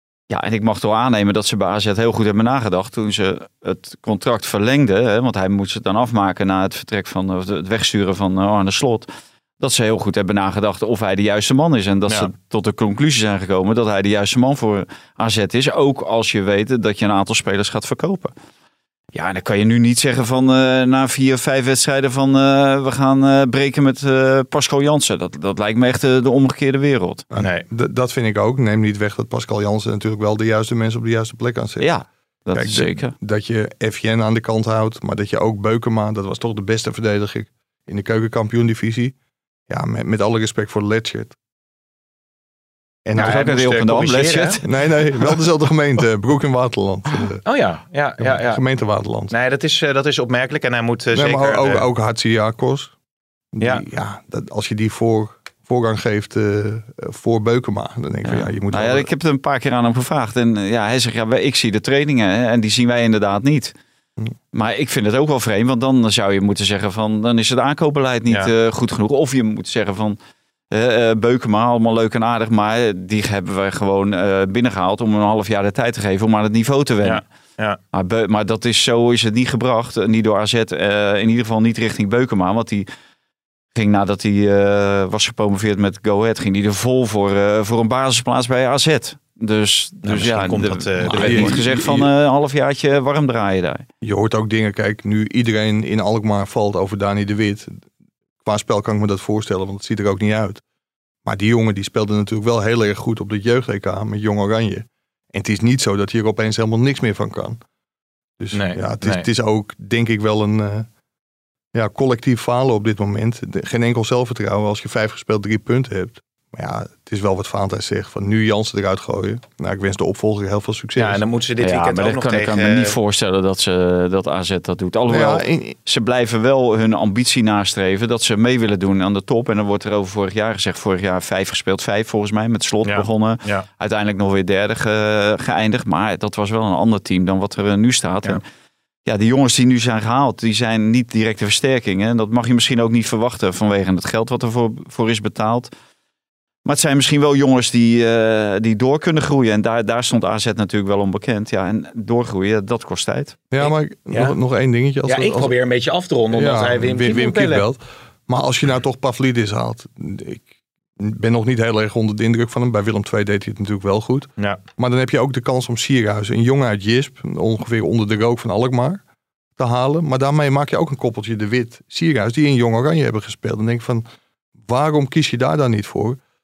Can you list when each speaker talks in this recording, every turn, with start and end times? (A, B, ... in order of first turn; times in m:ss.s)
0:00.3-0:09.1 A
0:09.6-0:18.3 A
0:19.1-0:27.2 A
0:27.3-0:31.9 B
0:27.4-0:27.7 C
0:31.8-0:33.1 A
0:32.5-0:39.1 B
0:39.7-0:41.3 B
0:43.0-0:43.4 B
0:43.2-0:44.6 C
0:43.2-0:44.6 A
0:44.6-0:47.4 B
0:47.4-0:48.6 C
0:48.2-0:49.3 B
0:49.3-0:51.8 C
0:51.1-0:52.9 B
0:53.5-0:59.1 B
0:58.2-1:03.7 A
1:04.5-1:10.2 A
1:10.7-1:17.2 A
1:17.0-1:17.8 C
1:17.9-1:22.8 A
1:23.7-1:33.8 A
1:30.0-1:31.8 C
1:31.0-1:32.0 B
1:34.0-1:37.8 B
1:38.4-1:40.6 B
1:41.2-1:47.6 B
1:48.4-1:50.9 B
1:48.5-1:49.2 C
1:51.7-2:01.2 B
2:01.0-2:03.0 C
2:01.6-2:18.4 A
2:05.1-2:05.8 B
2:12.8-2:13.6 C
2:19.0-2:25.7 A
2:26.6-2:33.4 A
2:33.5-2:35.5 B
2:33.6-2:34.3 C
2:35.0-2:37.6 C
2:36.3-2:40.4 B
2:41.0-2:49.0 B
2:49.6-2:54.0 B
2:54.6-2:56.2 B